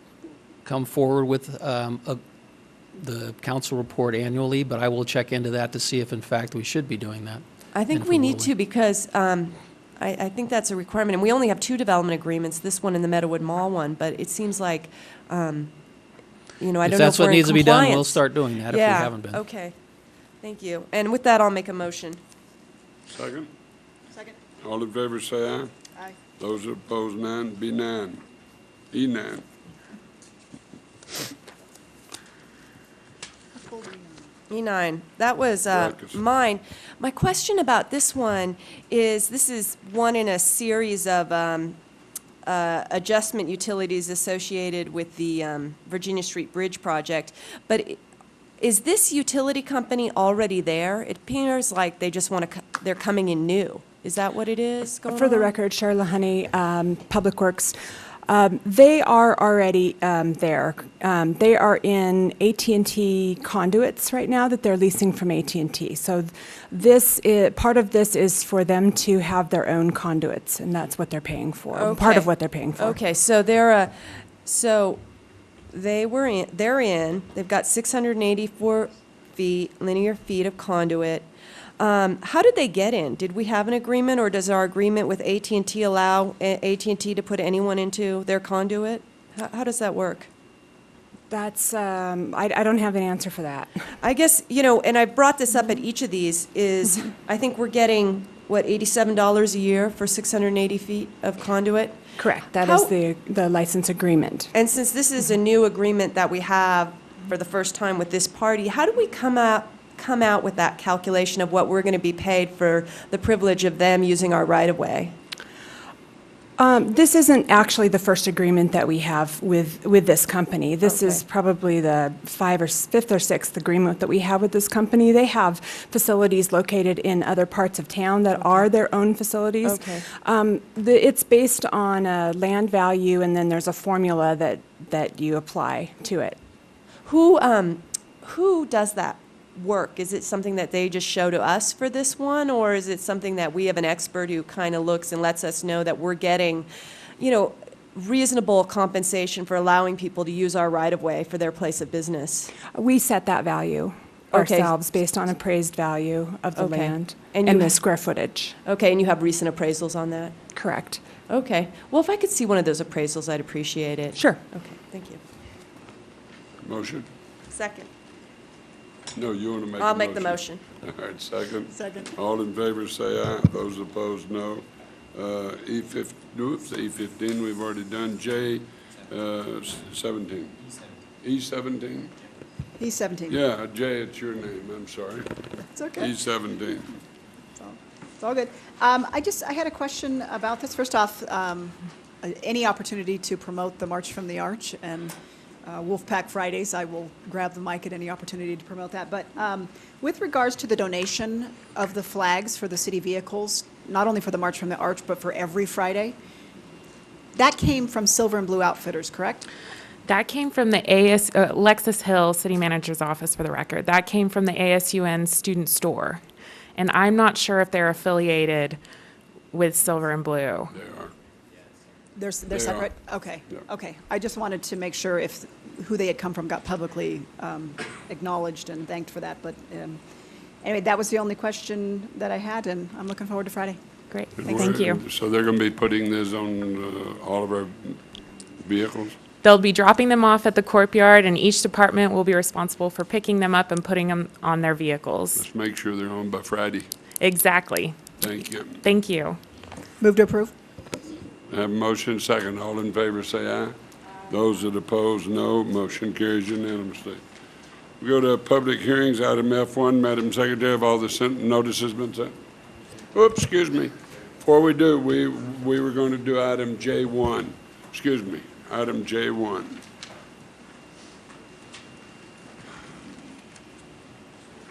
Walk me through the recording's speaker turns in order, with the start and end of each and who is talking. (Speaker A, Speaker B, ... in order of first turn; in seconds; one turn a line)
Speaker A: 0.7-2.2
Speaker A: 3.0-8.5
Speaker B: 7.7-15.7
Speaker B: 16.6-19.8
Speaker A: 16.8-19.4
Speaker B: 20.4-22.2
Speaker C: 23.1-23.5
Speaker D: 24.1-24.4
Speaker C: 24.6-25.7
Speaker C: 26.4-28.2
Speaker C: 28.9-29.4
Speaker D: 33.5-34.3
Speaker B: 34.5-41.8
Speaker C: 35.7-36.2
Speaker B: 42.5-48.0
Speaker B: 48.6-55.5
Speaker E: 55.0-57.8
Speaker E: 58.3-73.0
Speaker B: 71.7-75.0
Speaker B: 75.7-81.3
Speaker B: 81.8-90.3
Speaker E: 91.3-93.8
Speaker B: 94.0-102.0
Speaker E: 102.2-104.5
Speaker B: 102.5-102.9
Speaker B: 104.5-115.2
Speaker E: 116.6-136.4
Speaker B: 120.8-121.2
Speaker B: 129.6-130.0
Speaker B: 137.1-146.7
Speaker B: 147.2-152.5
Speaker E: 152.7-158.6
Speaker B: 154.3-154.7
Speaker B: 156.6-157.8
Speaker B: 158.7-160.3
Speaker E: 160.6-161.0
Speaker B: 161.3-165.2
Speaker E: 164.2-164.4
Speaker C: 166.6-167.1
Speaker B: 167.5-167.9
Speaker C: 169.1-180.6
Speaker B: 169.8-170.6
Speaker D: 171.7-172.1
Speaker C: 181.2-182.1
Speaker D: 182.8-183.4
Speaker C: 183.3-185.3
Speaker D: 185.6-186.1
Speaker C: 186.0-187.0
Speaker D: 187.6-206.2
Speaker D: 207.3-209.5
Speaker F: 210.1-216.2
Speaker F: 216.8-218.8
Speaker F: 219.5-220.7
Speaker C: 220.7-221.1
Speaker D: 222.2-230.0
Speaker C: 222.5-222.9
Speaker D: 230.6-233.8
Speaker F: 234.1-235.0
Speaker C: 234.4-238.0
Speaker C: 238.6-239.2
Speaker F: 239.4-245.4
Speaker C: 245.4-246.9
Speaker F: 247.2-248.0
Speaker C: 248.2-248.8
Speaker F: 248.8-249.4
Speaker D: 250.0-250.5
Speaker C: 251.5-253.8
Speaker C: 254.3-257.2
Speaker C: 258.0-262.3
Speaker C: 263.1-269.8